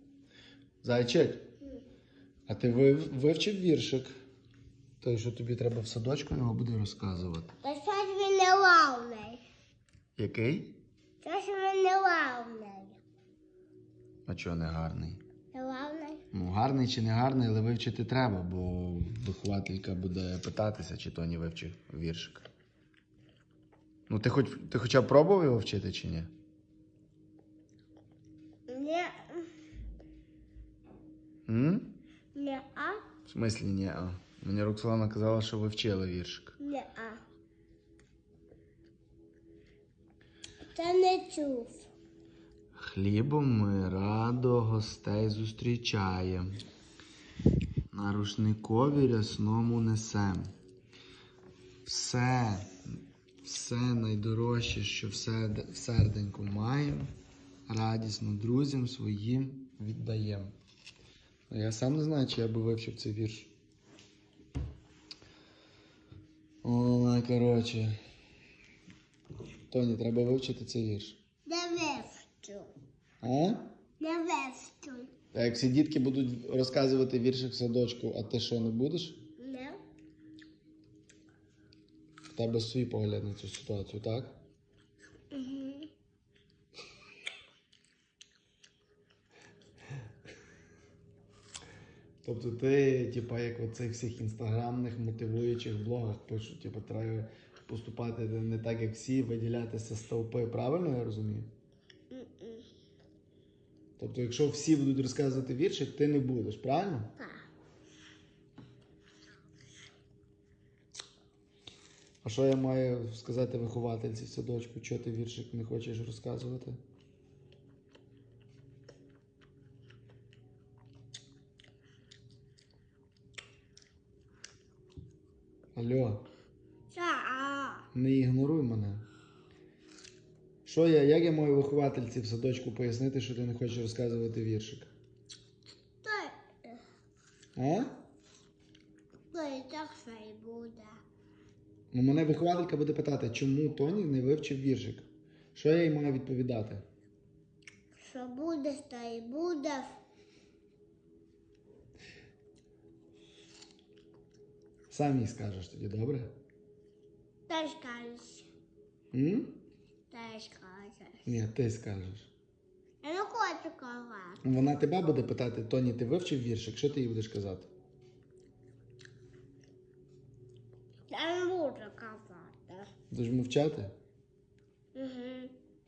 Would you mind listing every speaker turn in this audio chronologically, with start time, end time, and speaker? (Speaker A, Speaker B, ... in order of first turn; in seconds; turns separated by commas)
Speaker A: 0.8-1.5, Speaker A: 2.5-4.2, Speaker A: 5.0-7.5, Speaker B: 7.6-9.4, Speaker A: 10.2-10.8, Speaker B: 11.2-13.0, Speaker A: 14.3-15.2, Speaker B: 15.5-16.2, Speaker A: 16.3-22.5, Speaker A: 24.1-26.3, Speaker B: 28.7-29.5, Speaker A: 31.5-31.9, Speaker B: 32.3-33.1, Speaker A: 33.3-36.6, Speaker B: 36.6-37.2, Speaker B: 40.7-41.9, Speaker A: 42.8-46.6, Speaker A: 47.9-50.5, Speaker A: 51.9-52.8, Speaker A: 53.4-57.1, Speaker A: 57.7-60.5, Speaker A: 61.5-63.5, Speaker A: 66.6-68.0, Speaker A: 69.7-71.2, Speaker B: 71.5-72.7, Speaker A: 73.2-73.7, Speaker B: 74.0-75.1, Speaker A: 75.3-79.2, Speaker B: 79.4-79.8, Speaker A: 82.3-84.4, Speaker B: 85.3-85.9, Speaker A: 92.2-101.5, Speaker B: 102.1-102.7, Speaker A: 104.0-107.1, Speaker B: 107.2-107.5, Speaker A: 112.2-116.8, Speaker A: 125.8-126.2, Speaker B: 126.9-127.9, Speaker A: 127.9-129.1, Speaker A: 130.7-134.9, Speaker B: 136.0-136.8, Speaker A: 137.6-137.9, Speaker B: 139.3-141.0, Speaker A: 141.9-146.8, Speaker B: 148.0-150.0, Speaker A: 154.9-156.3, Speaker B: 157.5-158.5, Speaker A: 159.1-159.6, Speaker B: 160.1-161.3, Speaker A: 161.2-162.3, Speaker B: 163.0-164.4, Speaker A: 164.4-167.7, Speaker B: 171.1-172.9, Speaker A: 173.1-173.9, Speaker B: 174.9-175.6